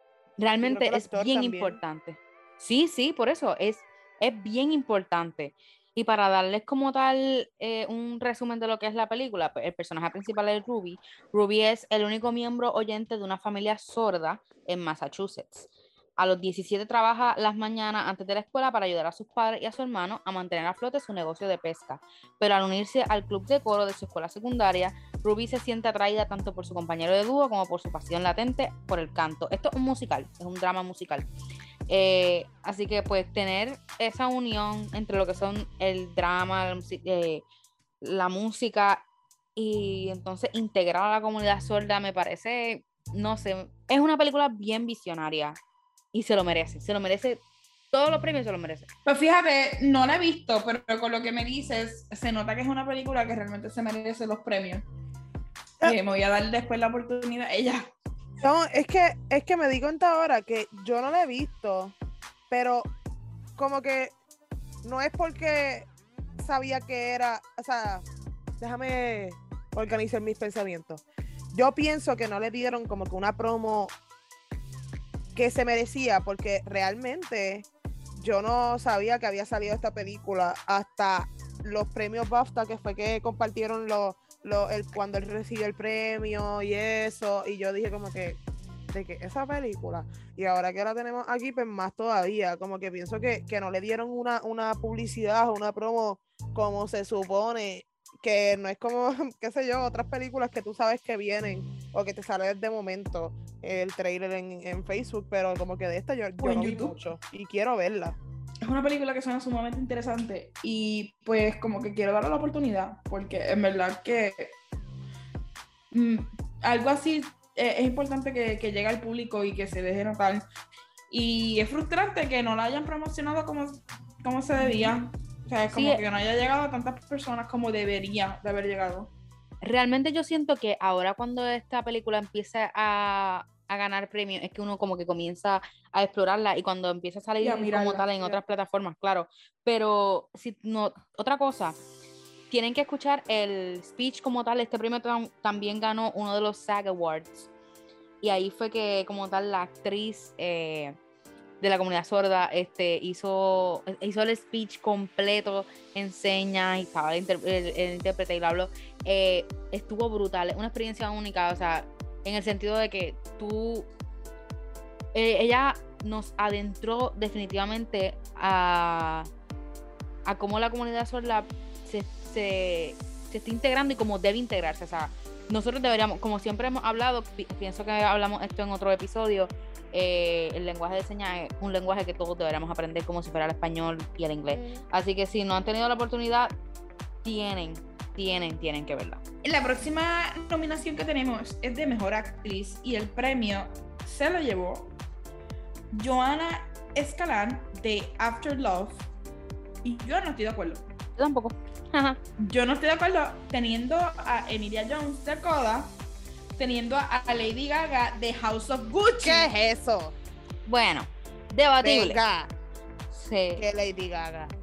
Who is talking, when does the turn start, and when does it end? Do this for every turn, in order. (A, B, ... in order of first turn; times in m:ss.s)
0:00.4-0:31.3 A
0:00.6-0:01.8 B
0:31.9-0:37.4 A
0:38.0-0:39.0 A
0:39.6-0:45.6 A
0:46.1-0:48.9 A
0:49.0-0:54.8 C
0:55.8-0:57.9 C
0:58.4-1:01.9 B
1:02.5-1:02.9 B
1:03.6-1:04.1 B
1:04.8-1:08.0 B
1:08.6-1:11.0 B
1:11.5-1:13.9 B
1:15.3-1:28.4 B
1:28.9-1:48.2 B
1:46.4-1:47.0 C
1:48.6-1:54.5 C
1:55.9-2:00.4 C
2:01.1-2:09.1 C
2:05.7-2:06.0 A
2:09.6-2:21.8 A
2:17.4-2:18.1 C
2:22.5-2:27.5 A
2:28.2-2:31.0 A
2:31.6-2:43.9 A
2:45.1-2:49.3 A
2:50.2-3:06.5 A
3:07.2-3:09.2 A
3:09.4-3:14.9 C
3:15.9-3:19.0 C
3:19.8-3:20.8 C
3:21.2-3:22.2 A
3:22.4-3:25.9 C
3:26.6-3:29.5 C
3:29.2-3:30.1 B
3:30.6-3:32.2 A
3:31.8-3:32.5 B
3:33.1-3:33.6 A
3:33.6-3:34.5 B